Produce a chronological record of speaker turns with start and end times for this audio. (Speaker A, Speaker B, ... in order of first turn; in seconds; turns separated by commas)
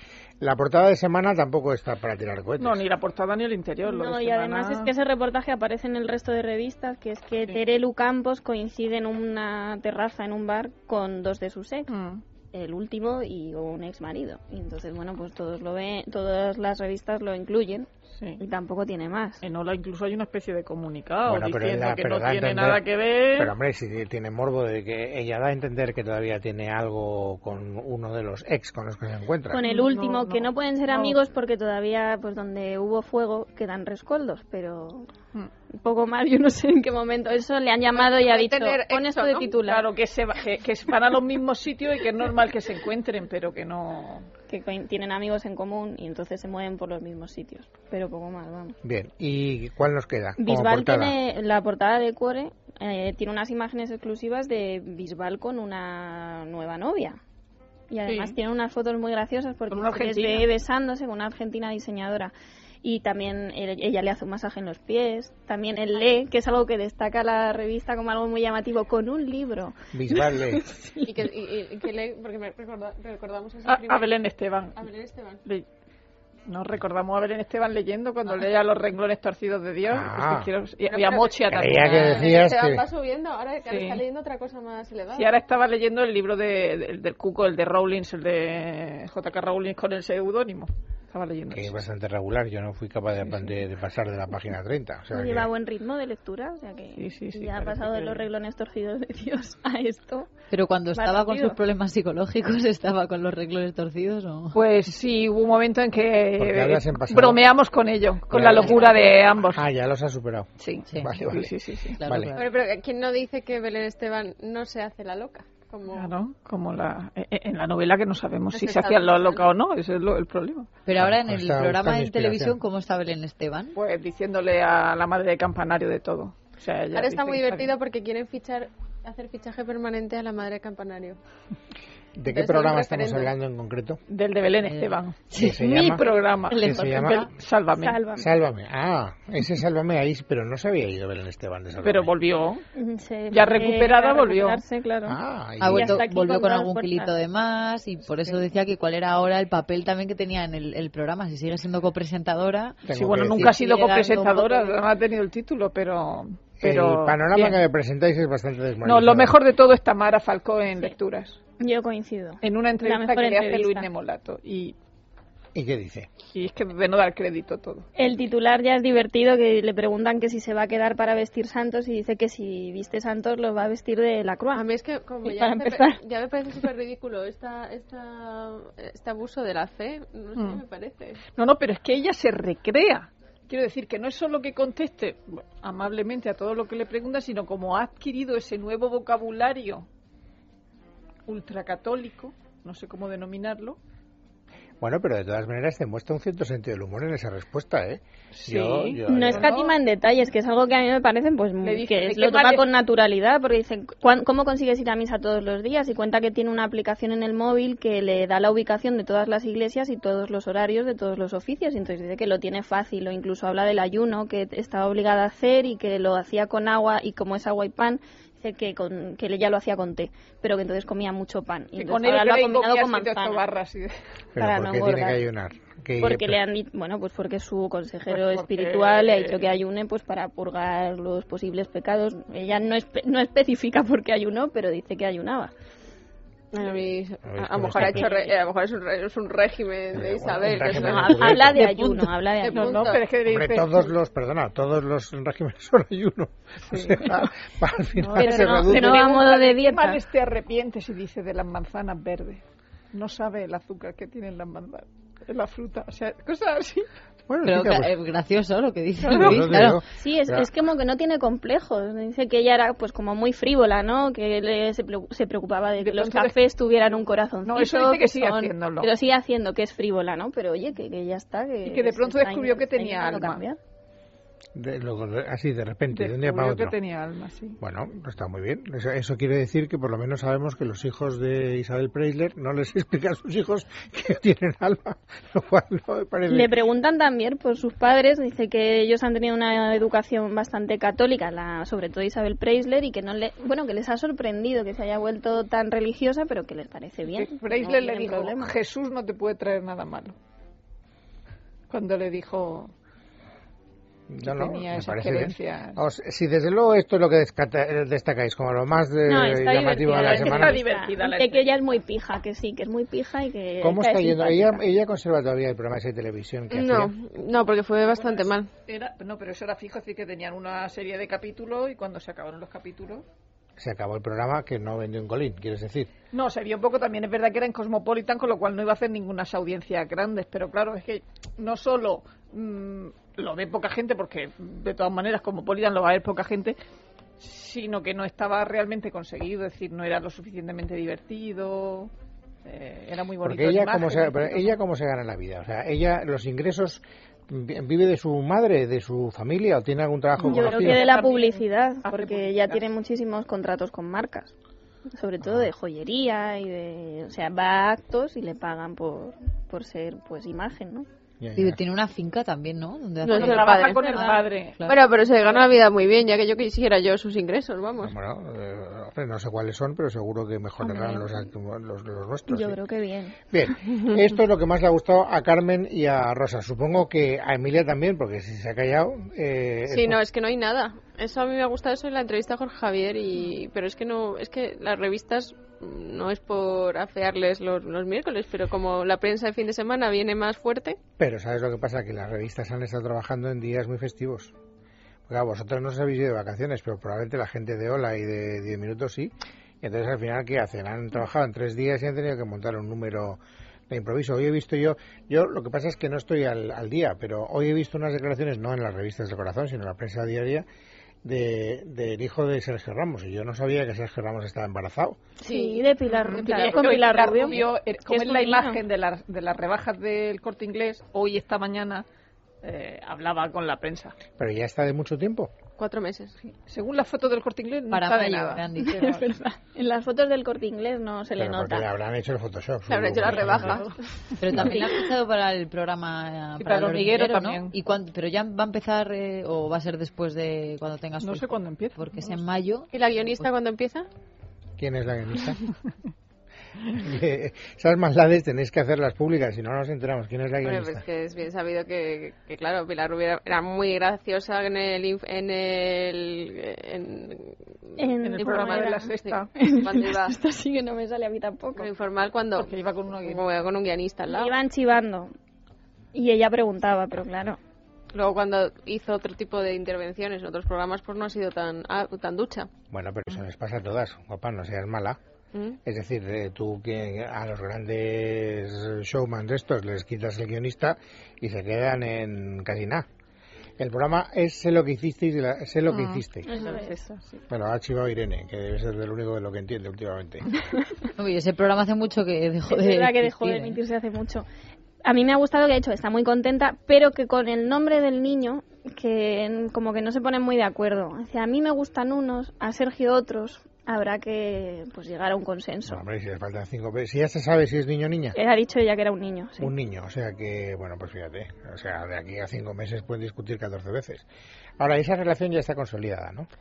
Speaker A: 0.4-2.8, Speaker B: 2.6-4.9, Speaker C: 3.8-11.9, Speaker B: 11.9-12.2, Speaker C: 12.5-19.4, Speaker B: 18.1-18.4, Speaker B: 19.4-23.5, Speaker A: 21.2-22.8, Speaker A: 23.4-29.6, Speaker C: 29.5-35.1, Speaker B: 29.6-31.2, Speaker C: 35.7-39.9, Speaker D: 37.9-39.5, Speaker B: 39.6-44.3, Speaker C: 44.5-48.8, Speaker A: 48.8-51.2, Speaker C: 50.4-57.2, Speaker C: 57.9-71.1, Speaker B: 58.0-58.4, Speaker B: 59.7-60.5, Speaker A: 69.9-70.7, Speaker D: 71.0-74.1, Speaker B: 73.6-74.8, Speaker D: 74.8-75.4, Speaker B: 76.5-82.4, Speaker A: 79.9-80.5, Speaker D: 80.8-85.3, Speaker A: 81.5-82.8, Speaker B: 83.7-84.0, Speaker B: 85.1-91.8, Speaker A: 91.5-95.5, Speaker C: 95.1-100.3, Speaker B: 97.0-98.3, Speaker E: 100.5-104.6, Speaker C: 100.9-101.6, Speaker B: 104.5-109.6, Speaker A: 106.4-107.4, Speaker A: 108.3-108.8, Speaker E: 108.3-109.0, Speaker A: 109.5-111.5, Speaker B: 110.6-112.0, Speaker E: 112.0-112.5, Speaker A: 112.0-112.3, Speaker D: 112.3-116.1, Speaker B: 115.9-120.7, Speaker D: 118.5-119.5, Speaker E: 120.8-123.8, Speaker A: 121.0-122.6, Speaker B: 123.7-127.7, Speaker D: 126.9-131.2, Speaker A: 132.2-134.0, Speaker D: 132.3-133.3, Speaker B: 134.1-138.0, Speaker E: 134.6-135.9, Speaker A: 135.4-136.0, Speaker E: 136.5-137.3, Speaker A: 136.6-137.3, Speaker C: 137.8-138.3, Speaker A: 138.2-142.1, Speaker B: 141.8-142.6, Speaker C: 142.7-147.2, Speaker B: 143.3-144.6, Speaker A: 145.1-146.0, Speaker E: 145.6-152.9, Speaker A: 152.9-153.6, Speaker B: 152.9-157.6, Speaker E: 153.5-154.8, Speaker A: 156.6-159.4, Speaker B: 158.8-161.4, Speaker C: 161.6-163.9, Speaker B: 162.4-164.8, Speaker A: 165.5-166.1, Speaker B: 166.3-167.8, Speaker C: 167.9-174.7, Speaker D: 174.5-181.2, Speaker C: 175.2-176.0, Speaker B: 180.3-180.6, Speaker B: 181.3-189.9, Speaker B: 191.2-193.8, Speaker A: 194.8-199.5, Speaker B: 198.3-199.7, Speaker C: 199.0-223.4, Speaker B: 201.6-202.7, Speaker B: 221.8-223.9, Speaker A: 224.3-226.4, Speaker C: 224.4-225.2, Speaker C: 226.0-235.5, Speaker B: 228.1-229.6, Speaker D: 236.5-241.2, Speaker A: 237.3-238.1, Speaker B: 237.8-238.4, Speaker A: 239.9-241.7, Speaker E: 240.7-242.2, Speaker C: 240.8-242.9, Speaker D: 242.4-243.0, Speaker B: 242.5-243.9, Speaker A: 243.2-249.1, Speaker B: 246.7-247.3, Speaker C: 248.0-250.0, Speaker E: 248.2-248.6, Speaker B: 248.6-256.9, Speaker A: 257.3-257.9, Speaker E: 257.4-259.8, Speaker A: 259.1-260.5, Speaker C: 259.9-273.6, Speaker B: 265.8-266.5, Speaker B: 267.4-268.9, Speaker B: 271.6-273.4, Speaker A: 274.5-276.8, Speaker B: 275.9-277.6, Speaker A: 277.6-286.5, Speaker C: 286.3-298.5, Speaker B: 297.1-300.1, Speaker B: 301.7-302.7, Speaker A: 304.1-310.6, Speaker B: 304.2-305.8, Speaker C: 309.1-314.6, Speaker B: 309.9-311.6, Speaker A: 313.6-316.9, Speaker D: 316.5-318.5, Speaker B: 317.9-323.1, Speaker A: 323.6-325.9, Speaker B: 326.1-336.6, Speaker B: 337.2-341.9, Speaker B: 342.4-344.6, Speaker A: 343.2-350.9, Speaker B: 350.2-352.7, Speaker C: 350.2-354.3, Speaker C: 354.9-360.9, Speaker A: 355.2-355.5, Speaker A: 361.2-361.6, Speaker E: 361.4-364.8, Speaker B: 363.0-365.4, Speaker D: 363.0-367.9, Speaker C: 363.6-364.2, Speaker A: 367.8-372.6, Speaker C: 370.6-371.3, Speaker C: 372.3-373.1, Speaker A: 373.3-380.0, Speaker D: 379.7-390.8, Speaker A: 391.0-394.3, Speaker A: 395.1-410.4, Speaker A: 411.0-415.0, Speaker C: 415.2-418.6, Speaker D: 415.2-416.7, Speaker B: 415.9-421.8, Speaker B: 422.4-423.9, Speaker A: 424.2-425.3, Speaker D: 425.6-426.1, Speaker B: 426.3-429.0, Speaker E: 427.7-429.1, Speaker C: 428.6-431.7, Speaker A: 431.2-433.6, Speaker D: 432.7-434.8, Speaker B: 433.1-433.7, Speaker E: 434.2-442.7, Speaker C: 434.4-434.7, Speaker B: 436.4-437.6, Speaker B: 441.0-442.2, Speaker D: 442.7-443.9, Speaker A: 444.6-445.4, Speaker A: 446.7-450.8, Speaker D: 450.4-460.1, Speaker C: 457.8-461.7, Speaker B: 458.0-459.3, Speaker D: 461.6-464.4, Speaker B: 462.3-463.2, Speaker C: 464.1-465.1, Speaker C: 465.9-467.4, Speaker D: 467.9-472.5, Speaker A: 472.7-475.0, Speaker D: 475.3-475.6, Speaker A: 475.6-482.9, Speaker A: 483.6-486.4, Speaker B: 485.7-487.2, Speaker C: 486.3-486.8, Speaker A: 487.3-490.3, Speaker E: 491.0-493.6, Speaker C: 492.5-494.2, Speaker C: 494.8-505.8, Speaker A: 505.6-508.2, Speaker C: 508.1-509.5, Speaker A: 509.4-514.1, Speaker A: 514.6-516.3